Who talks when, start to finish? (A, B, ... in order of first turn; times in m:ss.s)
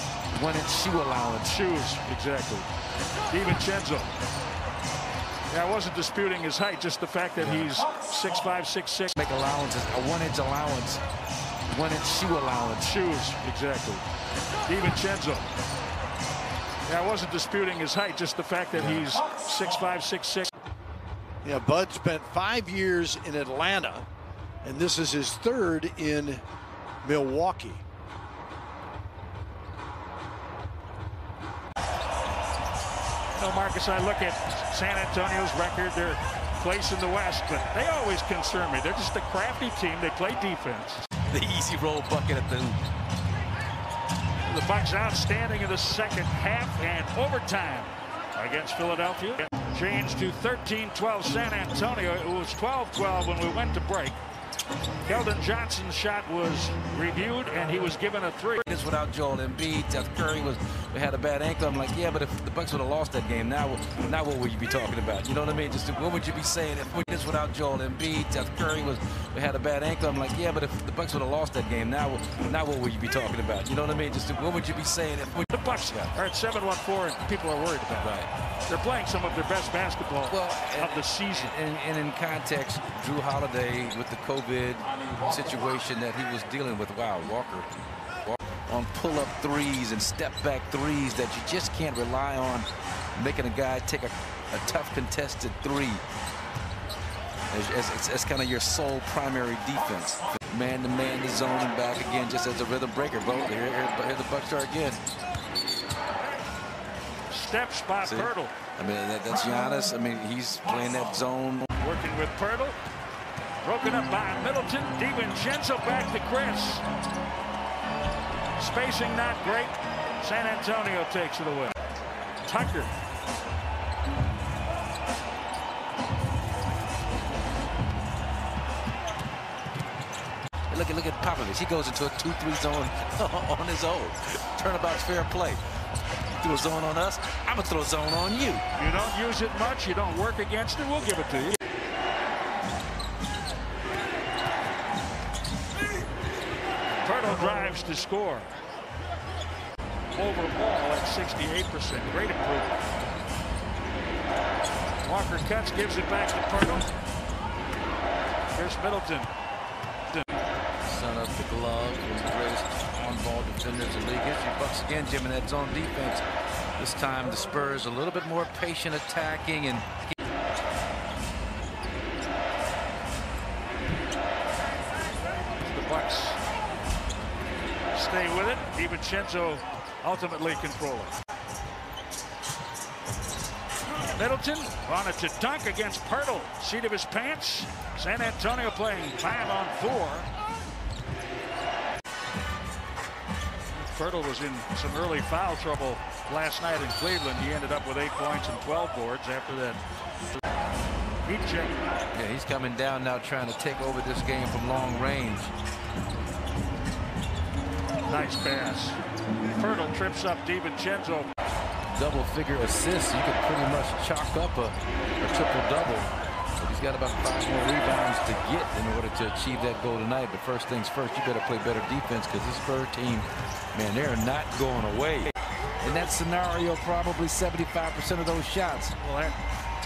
0:00.3-0:01.6 A
0:01.4-0:02.7 B
0:03.3-0:04.1 B
0:05.5-0:09.2 B
0:09.2-0:11.0 A
0:11.7-0:13.0 A
0:12.8-0:14.0 B
0:14.7-0:15.5 B
0:16.8-0:20.5 B
0:21.4-0:24.1 C
0:24.6-0:26.4 C
0:27.0-0:27.8 C
0:33.3-0:41.0 B
0:41.3-0:42.8 A
0:44.4-0:54.2 B
0:55.0-0:58.7 B
0:58.6-1:16.1 A
1:15.5-1:18.1 B
1:18.0-1:18.3 A
1:18.7-1:21.5 B
1:20.3-1:27.7 A
1:28.2-1:36.0 A
1:37.5-1:45.0 A
1:47.3-1:48.5 B
1:48.0-1:51.7 A
1:51.8-1:52.8 B
1:53.6-1:56.8 B
1:58.6-2:01.7 B
2:02.4-2:02.9 B
2:10.7-2:15.6 A
2:16.3-2:18.6 A
2:18.8-2:21.6 B
2:27.0-2:28.5 B
2:30.1-2:32.8 B
2:35.0-2:36.8 B
2:38.5-2:39.3 B
2:40.1-2:40.4 B
2:40.8-2:46.2 A
2:46.8-2:50.1 A
2:55.6-2:56.4 B
2:57.9-3:01.2 B
3:04.1-3:10.3 B
3:13.7-3:19.8 B
3:21.2-3:21.8 B
3:22.1-3:25.5 A
3:28.1-3:29.0 B
3:29.6-3:31.3 B
3:31.9-3:48.9 A
3:49.0-3:49.4 B